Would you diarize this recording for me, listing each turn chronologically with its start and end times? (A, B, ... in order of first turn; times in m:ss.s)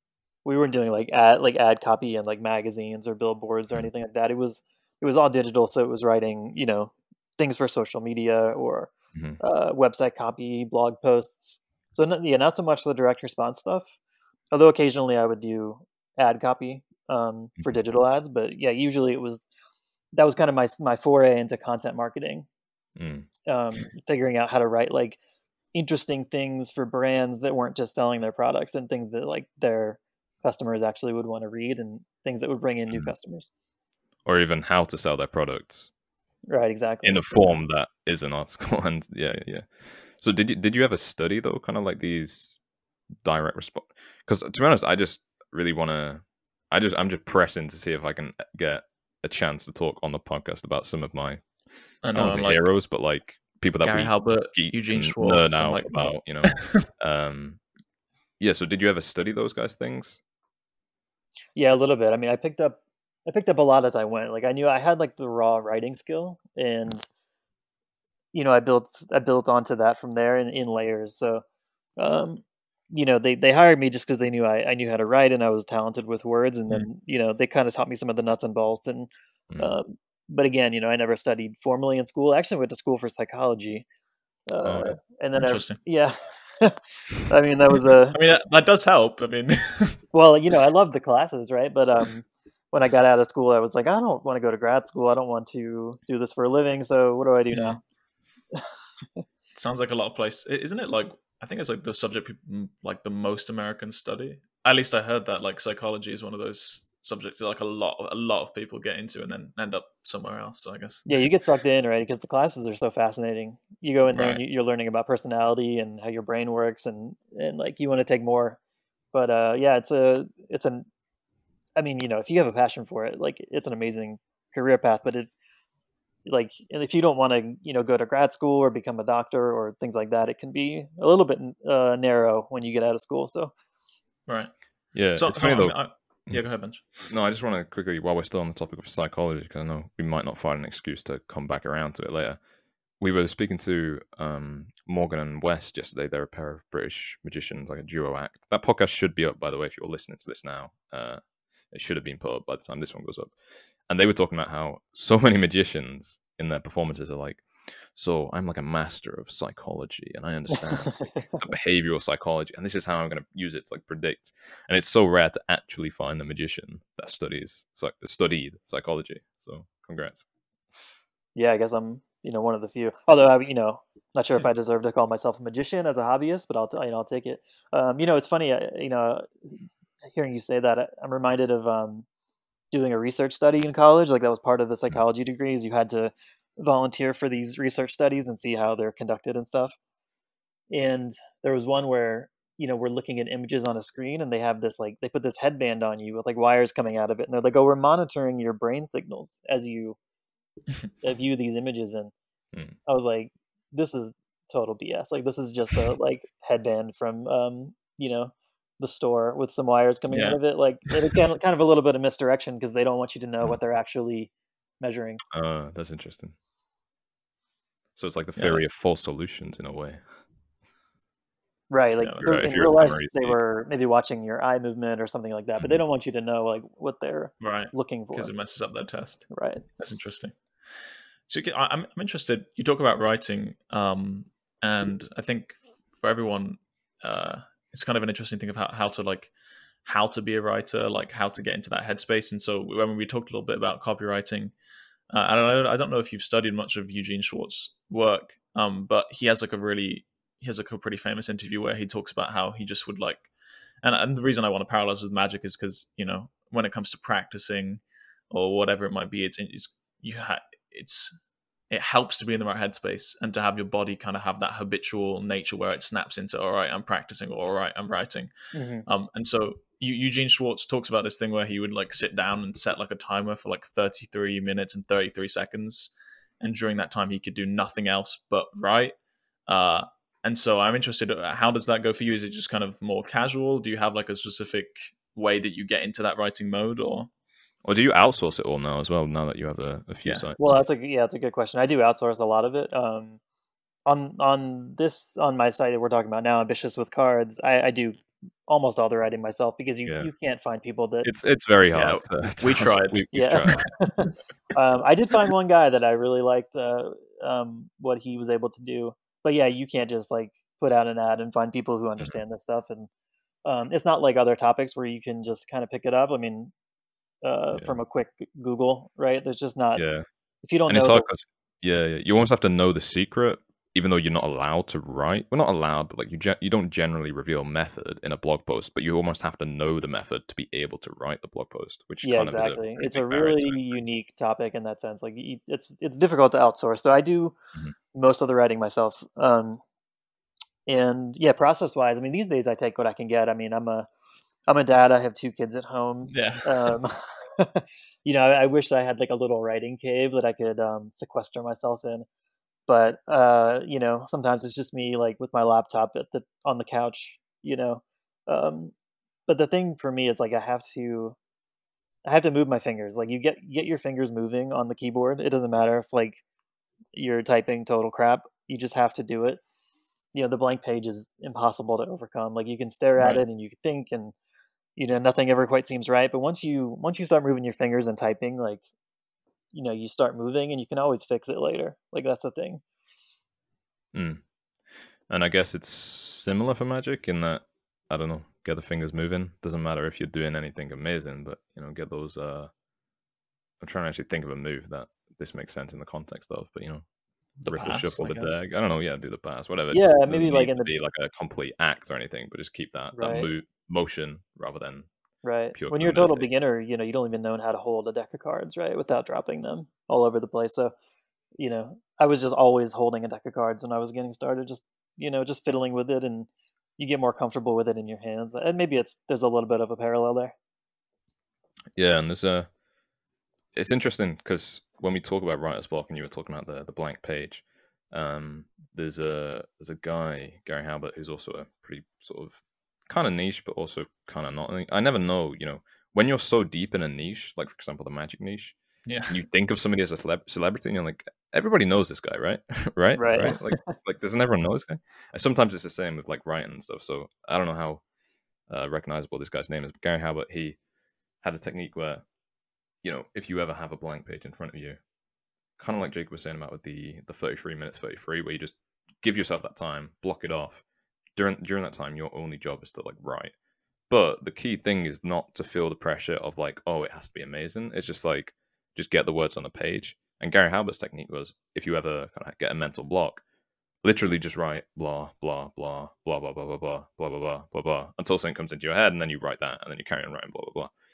0:00.4-0:13.9 A
0:09.1-0:09.4 B
0:14.5-0:19.5 A
0:20.1-0:22.5 A
0:23.0-0:23.3 B
0:23.5-0:25.2 A
0:25.7-0:33.5 A
0:34.2-0:35.9 B
0:36.5-0:37.3 A
0:37.0-0:42.6 B
0:43.2-0:51.5 B
0:52.0-0:52.6 C
0:52.1-0:57.6 B
0:53.8-0:56.8 C
0:58.4-1:00.2 B
1:01.6-1:07.1 A
1:08.3-1:11.4 A
1:12.0-1:23.8 A
1:24.5-1:28.2 A
1:24.6-1:25.0 B
1:25.3-1:25.8 C
1:28.1-1:30.0 C
1:30.1-1:37.8 A
1:37.5-1:37.8 C
1:39.6-1:51.3 C
1:51.1-1:58.6 A
1:54.1-1:54.4 C
1:59.1-2:00.9 A
2:01.8-2:05.3 A
2:06.2-2:13.5 A
2:14.3-2:16.9 C
2:14.9-2:15.8 B
2:17.0-2:22.4 B
2:23.0-2:33.4 B
2:33.9-2:50.2 B
2:51.4-3:02.1 A
3:02.7-3:09.8 A
3:10.7-3:20.0 A
3:21.0-3:22.1 A
3:22.9-3:35.2 A
3:30.1-3:30.4 C
3:35.3-3:36.4 B
3:38.0-3:40.0 B
3:38.4-3:38.6 C
3:41.7-3:48.3 A
3:42.0-3:42.7 C
3:42.2-3:43.4 B
3:47.4-3:59.3 C
3:49.3-3:49.6 A
3:59.8-4:04.6 C
4:05.1-4:13.3 C
4:13.8-4:21.2 C
4:21.7-4:28.3 C
4:28.5-4:28.8 A
4:28.8-4:47.1 C
4:47.6-4:50.6 B
4:50.0-4:50.3 C
4:50.4-4:53.2 A
4:53.9-5:01.1 A
4:59.8-5:00.1 B
5:01.0-5:03.7 B
5:01.7-5:03.6 C
5:03.1-5:12.9 A
5:13.4-5:16.5 A
5:17.2-5:19.8 A
5:17.5-5:17.8 B
5:19.8-5:20.1 B
5:20.4-5:21.1 A
5:20.7-5:33.8 B
5:32.0-5:37.4 A
5:37.9-5:39.6 A
5:40.7-5:43.9 A
5:44.5-5:52.1 A
5:46.1-5:46.7 C
5:52.7-5:58.7 A
5:59.3-6:01.2 A
6:02.0-6:06.2 A
6:06.9-6:09.4 A
6:10.1-6:14.2 A
6:14.8-6:18.6 A
6:19.5-6:22.6 A
6:23.9-6:24.2 B
6:25.1-6:32.5 B
6:33.6-6:36.8 B
6:37.4-6:38.4 C
6:37.4-6:44.9 B
6:39.7-6:40.7 A
6:42.9-6:43.3 A
6:45.2-6:50.7 A
6:45.5-6:46.3 B
6:51.4-7:00.4 A
7:01.8-7:02.5 B
7:03.5-7:18.6 B
7:18.9-7:19.2 C
7:19.1-7:27.8 B
7:23.0-7:23.8 A
7:28.5-7:30.6 B
7:31.2-7:32.0 B
7:32.8-7:34.8 B
7:35.6-7:40.6 B
7:41.2-7:43.3 B
7:43.9-7:53.2 B
7:53.8-8:00.7 B